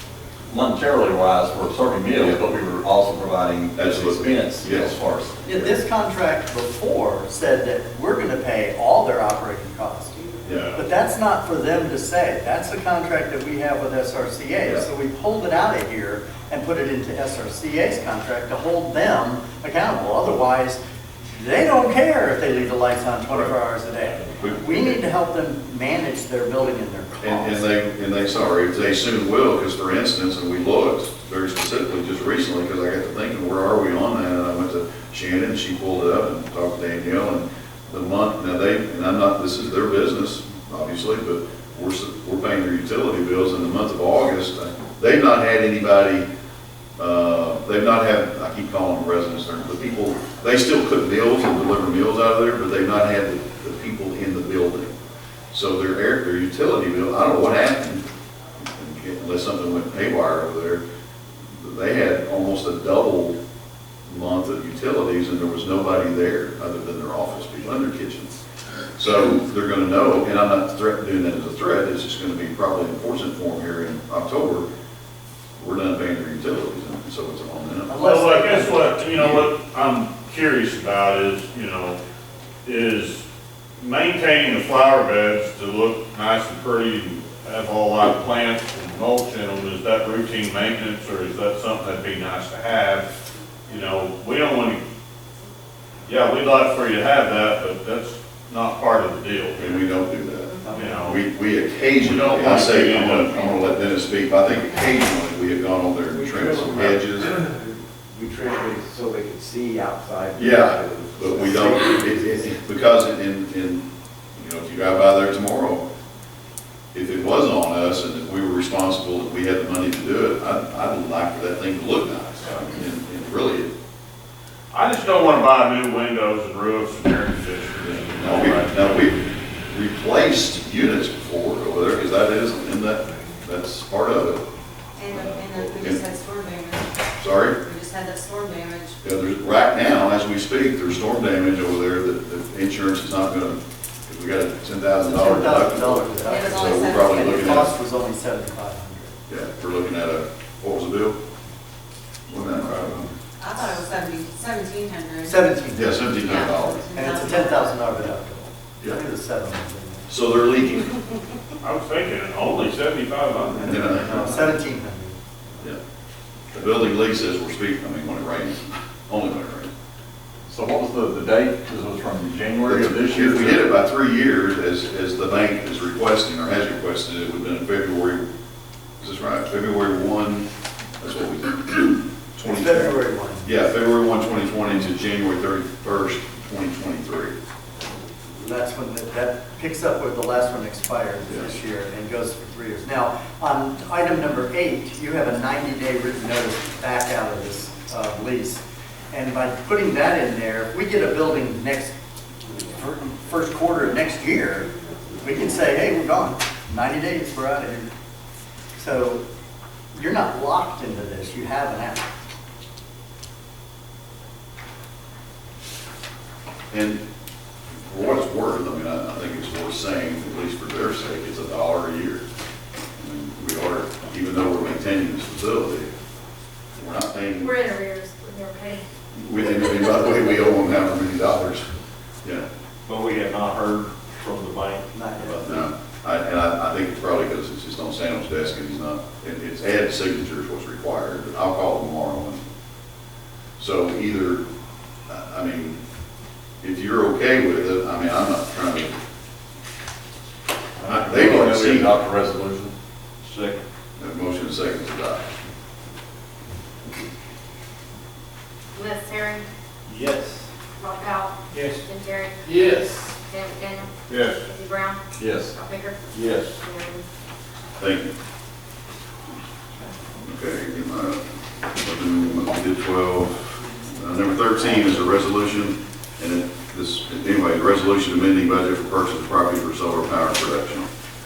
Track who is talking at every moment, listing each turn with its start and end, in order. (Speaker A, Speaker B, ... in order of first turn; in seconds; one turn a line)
Speaker A: 0.5-5.4
Speaker B: 3.8-5.0
Speaker C: 5.5-20.8
Speaker B: 10.4-10.7
Speaker D: 10.5-10.8
Speaker C: 21.3-27.8
Speaker B: 24.2-25.0
Speaker B: 27.2-46.3
Speaker B: 47.0-55.0
Speaker B: 55.5-58.0
Speaker B: 58.6-60.8
Speaker B: 61.5-63.4
Speaker B: 64.0-68.4
Speaker B: 69.0-74.7
Speaker B: 75.6-77.9
Speaker C: 77.9-79.1
Speaker D: 78.0-82.0
Speaker B: 79.1-79.5
Speaker D: 82.7-83.2
Speaker D: 83.8-94.8
Speaker D: 96.1-99.9
Speaker B: 99.6-107.3
Speaker D: 100.7-101.2
Speaker D: 102.0-103.7
Speaker E: 106.1-112.5
Speaker B: 110.4-115.8
Speaker B: 116.9-123.7
Speaker D: 124.7-129.0
Speaker B: 127.9-134.4
Speaker F: 135.0-136.9
Speaker B: 135.1-136.0
Speaker B: 137.2-137.6
Speaker F: 137.6-139.0
Speaker B: 139.0-147.7
Speaker C: 145.0-149.2
Speaker F: 146.3-147.3
Speaker B: 149.3-151.2
Speaker B: 152.3-153.1
Speaker F: 153.4-155.4
Speaker C: 155.2-156.2
Speaker B: 155.7-156.8
Speaker F: 156.2-157.8
Speaker C: 156.9-160.1
Speaker B: 160.1-160.9
Speaker D: 161.6-163.8
Speaker C: 163.6-165.2
Speaker B: 163.6-164.4
Speaker B: 166.5-169.7
Speaker A: 170.5-173.6
Speaker B: 172.7-178.3
Speaker B: 179.0-180.5
Speaker B: 181.0-187.3
Speaker C: 182.4-183.5
Speaker C: 188.4-207.9
Speaker C: 208.8-209.2
Speaker C: 209.9-212.1
Speaker B: 216.7-217.0
Speaker B: 217.9-222.2
Speaker B: 223.0-225.9
Speaker B: 226.8-227.6
Speaker G: 227.4-228.8
Speaker B: 229.1-231.7
Speaker H: 232.9-235.6
Speaker C: 234.9-235.5
Speaker B: 235.4-242.4
Speaker B: 243.6-244.4
Speaker B: 245.1-245.8
Speaker B: 246.6-249.0
Speaker A: 250.8-252.7
Speaker B: 250.8-251.9
Speaker B: 254.0-255.3
Speaker G: 258.8-259.4
Speaker H: 259.9-260.4
Speaker G: 260.8-262.6
Speaker G: 263.2-267.0
Speaker D: 264.1-264.4
Speaker A: 265.2-265.6
Speaker H: 266.2-266.5
Speaker B: 267.8-268.1
Speaker B: 270.2-271.2
Speaker B: 271.7-280.9